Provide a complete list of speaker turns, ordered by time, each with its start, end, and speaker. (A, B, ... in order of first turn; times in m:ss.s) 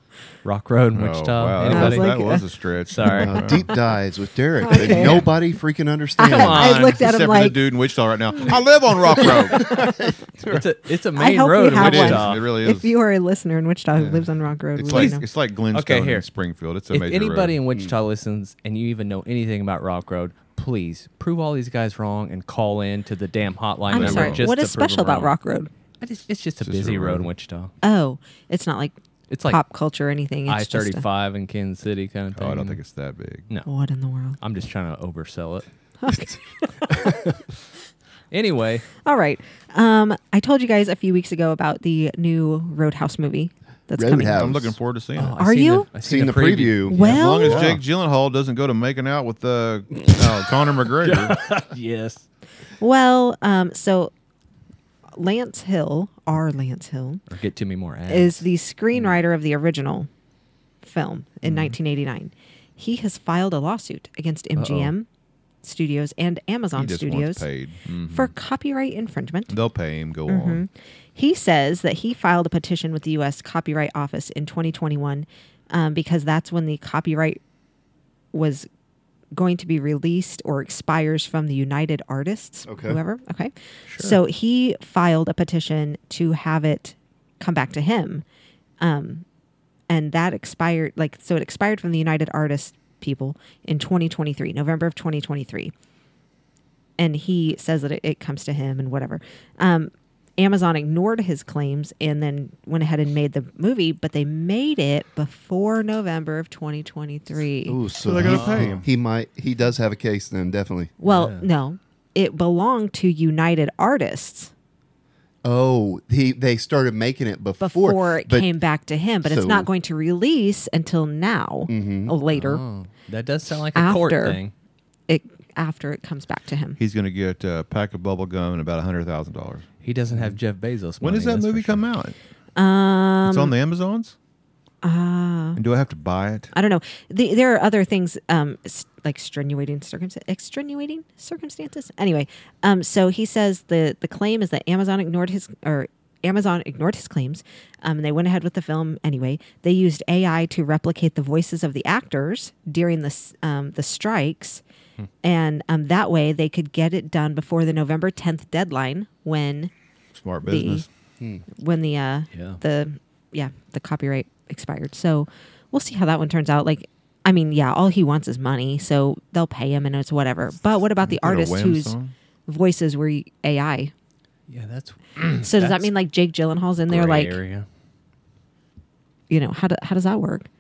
0:00.4-0:02.3 A
0:00.9-0:03.8 B
0:01.6-0:02.5 C
0:02.9-0:03.6 A
0:03.1-0:06.8 D
0:04.6-0:05.2 C
0:04.8-0:05.2 A
0:04.9-0:05.3 B
0:06.2-0:07.6 C
0:06.3-0:07.0 A
0:06.8-0:09.9 B
0:09.2-0:09.9 C
0:09.6-0:10.6 D
0:10.5-0:12.5 A
0:11.2-0:15.2 C
0:11.7-0:12.9 B
0:14.8-0:17.6 B
0:14.9-0:16.3 A
0:16.9-0:25.4 A
0:23.9-0:25.7 C
0:23.9-0:24.4 B
0:26.0-0:27.7 A
0:26.6-0:27.3 B
0:27.8-0:29.0 C
0:29.3-0:29.6 A
0:29.5-0:31.0 C
0:30.5-0:32.8 A
0:32.3-0:33.5 B
0:33.7-0:34.4 C
0:34.4-0:35.7 A
0:36.0-0:37.2 C
0:38.3-0:38.9 A
0:39.0-0:44.4 C
0:44.0-0:44.8 D
0:44.4-0:45.4 B
0:45.2-0:47.7 A
0:45.4-0:45.9 C
0:46.0-0:47.8 D
0:46.9-0:47.7 C
0:47.0-0:51.4 B
0:51.0-0:52.2 A
0:52.8-0:54.1 C
0:55.2-0:57.2 C
0:57.3-0:59.2 A
0:58.1-1:00.1 C
1:00.8-1:05.1 C
1:01.4-1:01.8 A
1:04.6-1:04.9 A
1:05.6-1:07.5 C
1:06.7-1:07.8 B
1:07.9-1:08.3 A
1:08.0-1:09.6 C
1:09.5-1:10.6 B
1:10.3-1:17.4 C
1:18.3-1:18.7 C
1:19.3-1:28.2 C
1:22.7-1:23.0 D
1:23.9-1:24.2 A
1:28.8-1:29.2 C
1:29.9-1:35.7 C
1:37.0-1:47.8 C
1:47.7-1:50.9 D
1:48.0-1:48.8 B
1:48.2-1:48.8 A
1:51.0-1:54.5 C
1:51.0-1:51.5 A
1:55.4-1:58.5 D
1:57.6-2:02.6 C
1:59.2-1:59.7 D
2:01.7-2:02.2 D
2:02.3-2:04.5 A
2:03.8-2:04.4 C
2:05.1-2:06.8 C
2:06.8-2:10.4 B
2:09.8-2:11.8 A
2:11.0-2:12.2 B
2:12.6-2:13.5 C
2:13.2-2:14.2 B
2:14.8-2:15.6 C
2:15.6-2:16.5 B
2:16.5-2:34.6 C
2:35.2-2:39.7 C
2:40.1-2:40.9 B
2:40.4-2:40.9 C
2:41.5-2:52.0 C
2:42.3-2:42.6 A
2:51.0-2:52.1 B
2:52.5-2:53.9 C
2:54.5-2:55.9 A
2:55.4-2:57.4 C
2:56.9-2:57.7 A
2:59.3-3:00.5 C